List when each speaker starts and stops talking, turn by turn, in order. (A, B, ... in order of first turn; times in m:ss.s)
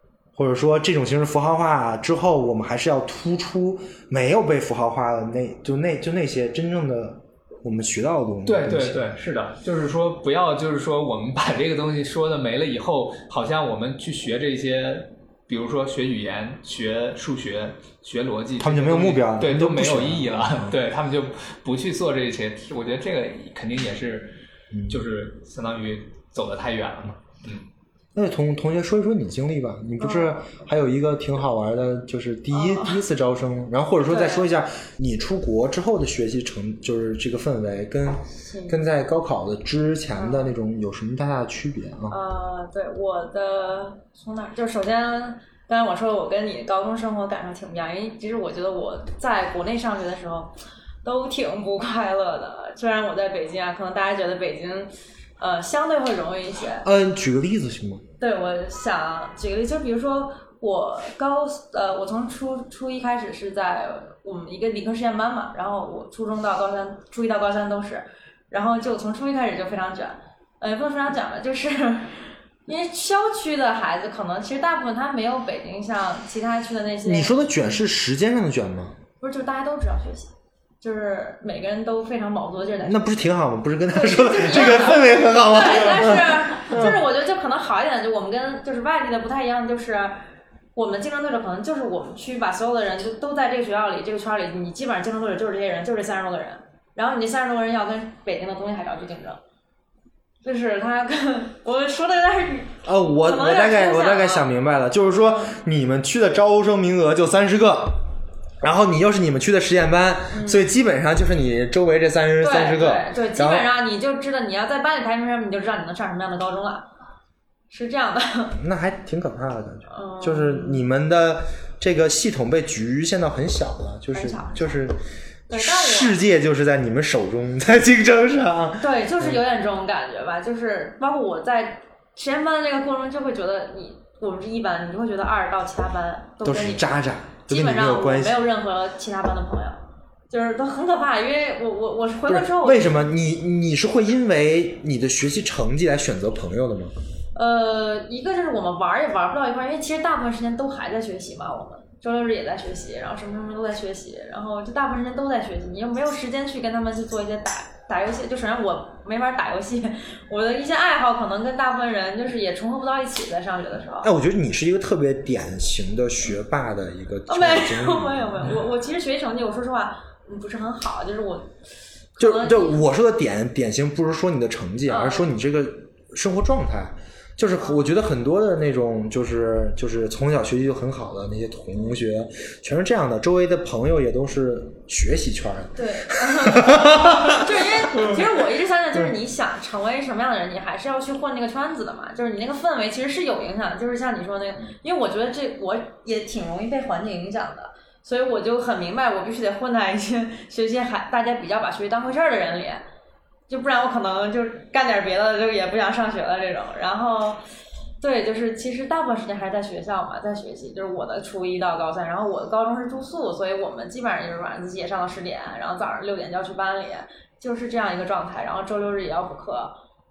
0:00.3-0:09.1 A
0:08.4-0:24.3 B
0:18.6-0:20.7 A
0:24.7-0:25.0 A
0:24.9-0:27.7 B
0:28.1-0:42.2 A
0:30.0-0:30.4 C
0:32.5-0:33.0 C
0:34.0-0:34.5 C
0:38.4-0:38.8 C
0:40.1-0:40.5 C
0:42.1-0:50.5 C
0:51.0-0:56.9 C
0:56.8-0:58.0 A
0:58.2-1:17.4 C
1:17.0-1:19.0 A
1:19.2-1:23.1 C
1:22.8-1:27.0 A
1:23.9-1:30.2 C
1:30.7-1:39.4 C
1:40.4-1:44.5 C
1:42.8-1:48.0 A
1:45.2-1:45.5 C
1:48.6-1:53.7 A
1:50.3-1:50.6 C
1:52.4-1:56.9 C
1:57.7-1:58.6 C
1:58.6-2:05.0 A
1:59.9-2:00.8 C
2:04.1-2:04.8 C
2:05.5-2:06.2 C
2:05.5-2:09.4 A
2:08.8-2:16.9 C
2:16.4-2:18.5 A
2:17.5-2:22.9 C
2:22.3-2:26.9 A
2:27.3-2:44.1 C
2:44.0-2:48.6 A
2:47.3-2:51.5 C
2:52.1-2:52.8 C
2:52.2-3:08.2 A
2:54.9-2:55.3 C
2:57.6-2:57.8 C
3:05.7-3:22.8 C
3:23.5-3:27.4 C
3:28.0-3:39.7 C